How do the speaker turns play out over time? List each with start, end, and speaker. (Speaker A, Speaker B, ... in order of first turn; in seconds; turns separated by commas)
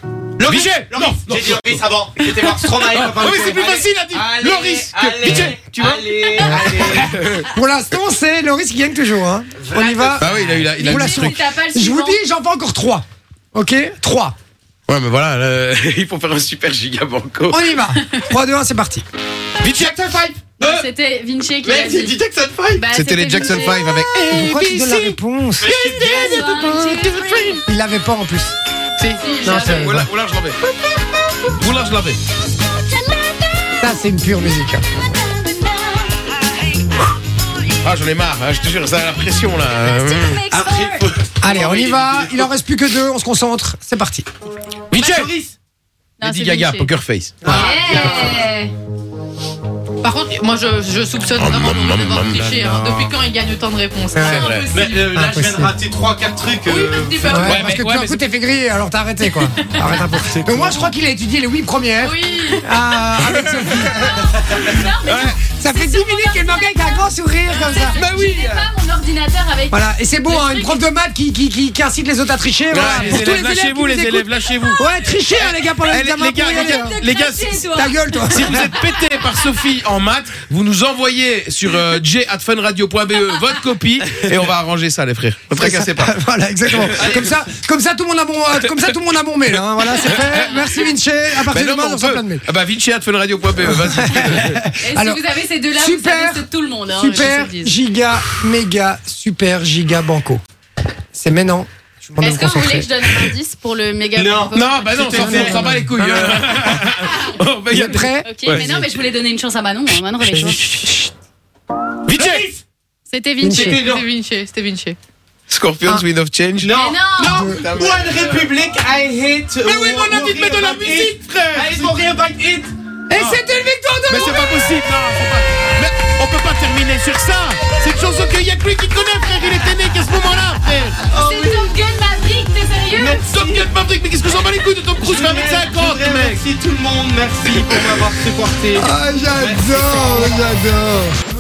Speaker A: 0.4-7.1, Speaker B: 0.4-1.8, Speaker B: 2.9-7.5, Speaker C: 6.4-14.3, Speaker A: 9.6-10.6, Speaker B: 10.1-11.4, Speaker D: 10.8-12.2, Speaker B: 14.9-17.7, Speaker C: 17.5-19.0, Speaker A: 19.6-20.9, Speaker B: 19.6-20.0, Speaker D: 20.6-24.0, Speaker A: 21.6-22.8, Speaker B: 22.9-25.2, Speaker C: 24.3-25.7, Speaker A: 25.6-26.8, Speaker D: 25.7-27.6, Speaker B: 25.9-27.6, Speaker C: 27.6-28.5, Speaker B: 29.0-30.6, Speaker D: 29.2-30.0, Speaker C: 29.4-30.1, Speaker B: 31.5-32.2, Speaker C: 33.8-34.8, Speaker D: 35.7-36.0, Speaker B: 37.8-40.5, Speaker D: 40.3-41.0, Speaker A: 40.5-42.5, Speaker C: 41.4-44.2, Speaker B: 44.9-45.3, Speaker A: 44.9-45.5, Speaker D: 46.2-46.9, Speaker B: 46.2-47.4, Speaker A: 47.4-48.4, Speaker D: 47.4-48.7, Speaker E: 50.0-55.1, Speaker B: 51.4-53.1, Speaker C: 54.1-54.5, Speaker B: 54.1-54.7, Speaker A: 54.7-57.6, Speaker C: 55.1-55.7, Speaker E: 56.6-57.8, Speaker C: 57.2-64.4, Speaker B: 57.3-58.2, Speaker B: 60.1-60.9, Speaker E: 62.0-62.5, Speaker D: 62.0-62.6, Speaker B: 63.2-64.1, Speaker D: 64.2-70.8, Speaker B: 65.0-65.3, Speaker C: 65.4-68.0, Speaker B: 67.9-68.7, Speaker C: 69.7-77.0, Speaker B: 72.7-77.7, Speaker D: 72.8-73.2, Speaker D: 74.8-75.1, Speaker D: 76.3-78.7, Speaker C: 77.7-78.7, Speaker B: 78.3-86.1, Speaker C: 85.6-92.4, Speaker B: 86.7-87.2, Speaker A: 86.8-87.3, Speaker B: 89.9-90.6, Speaker B: 91.5-94.6, Speaker C: 93.6-95.2, Speaker D: 94.8-97.8, Speaker C: 95.7-100.4, Speaker C: 101.1-102.9, Speaker D: 102.2-104.9, Speaker A: 104.1-105.7, Speaker B: 104.5-109.0, Speaker C: 105.0-106.8, Speaker C: 107.7-108.3, Speaker D: 108.2-110.9, Speaker C: 110.2-111.1, Speaker B: 112.1-112.5, Speaker A: 112.1-112.6, Speaker D: 113.1-113.8, Speaker C: 113.4-113.8, Speaker A: 113.5-114.0, Speaker E: 113.6-115.0, Speaker B: 115.5-118.5, Speaker A: 116.6-123.4, Speaker D: 116.7-117.5, Speaker C: 117.3-117.6, Speaker B: 119.6-122.0, Speaker C: 123.1-124.7, Speaker B: 124.1-131.0, Speaker A: 131.1-131.8, Speaker D: 131.1-133.2, Speaker A: 132.9-133.7, Speaker B: 133.3-136.4, Speaker A: 135.0-140.4, Speaker C: 138.7-141.1